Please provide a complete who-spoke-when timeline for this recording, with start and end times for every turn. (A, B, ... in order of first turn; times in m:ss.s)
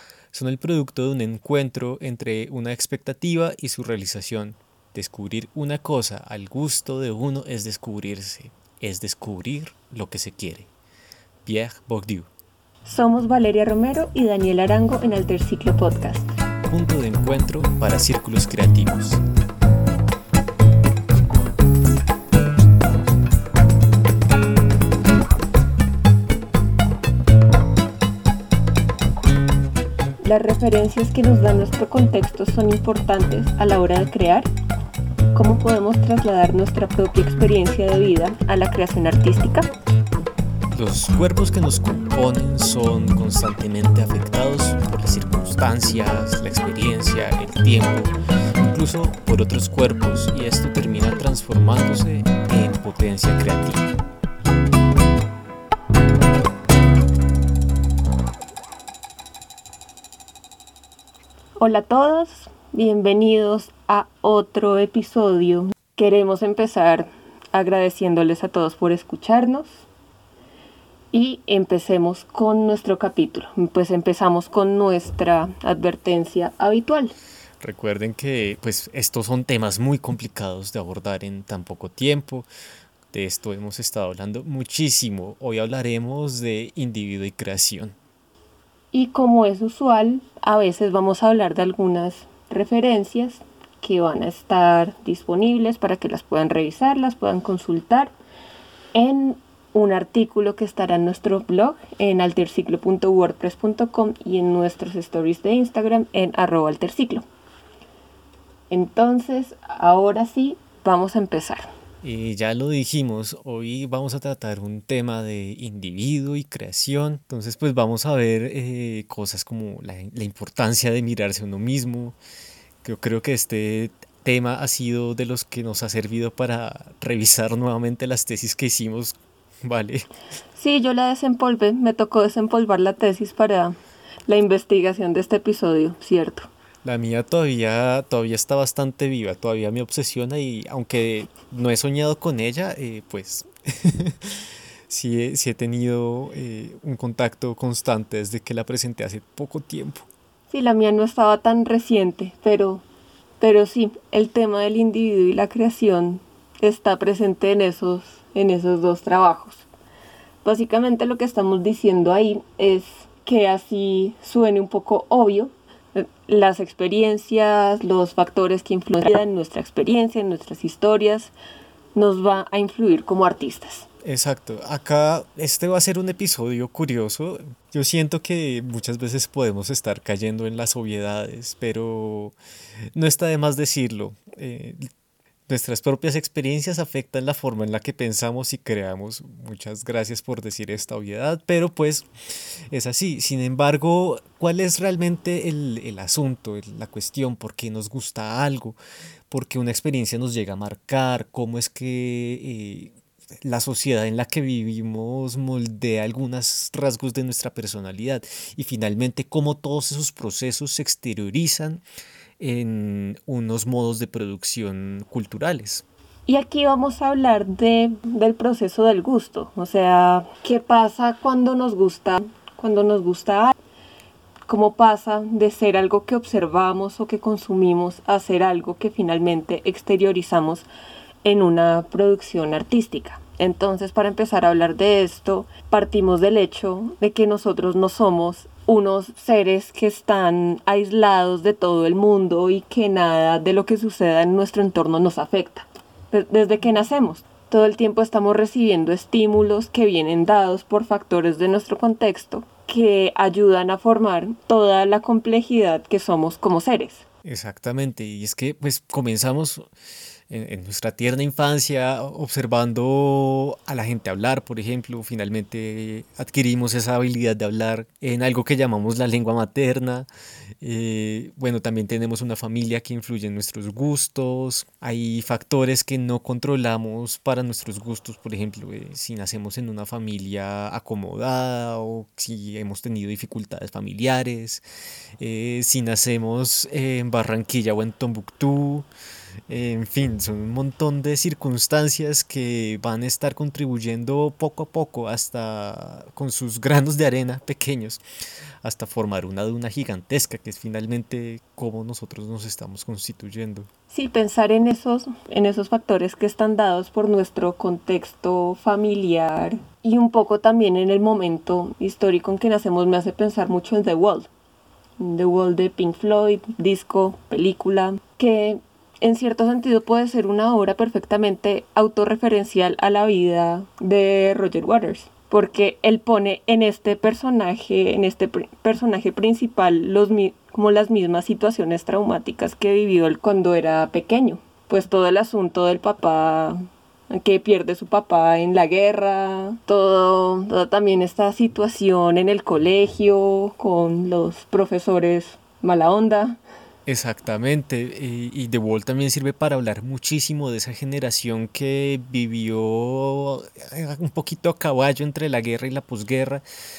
0:00.3-0:10.7 A
0:11.4-0:12.3 A
0:12.8-0:16.3 B
0:16.7-0:19.2 A
0:30.2-0:34.5 B
0:35.3-0:39.7 B
0:40.7-0:53.9 A
1:01.6-1:09.8 B
1:11.1-1:17.1 B
1:17.6-1:22.5 A
1:23.1-1:28.0 A
1:28.9-1:38.1 B
1:38.9-1:47.2 B
1:48.7-1:51.7 B
1:52.0-2:02.2 A
2:02.8-2:10.1 A
2:10.6-2:13.8 B
2:14.3-2:16.5 B
2:16.8-2:24.4 A
2:24.9-2:30.1 A
2:30.5-2:32.8 B
2:33.4-2:39.6 B
2:40.4-2:51.3 B
2:51.9-2:53.9 B
2:54.0-3:02.4 A
3:02.9-3:04.9 A
3:05.5-3:12.1 A
3:12.7-3:18.8 A
3:19.3-3:31.8 A
3:32.4-3:35.8 A
3:36.3-3:43.6 B
3:44.5-3:50.7 B
3:51.2-4:17.0 B
4:17.2-4:19.7 A
4:20.3-4:30.1 A
4:30.6-4:44.6 A
4:45.2-4:48.9 A
4:49.5-4:58.0 A
4:58.6-5:03.7 A
5:03.9-5:14.3 B
5:15.0-5:46.4 B
5:46.8-5:56.4 A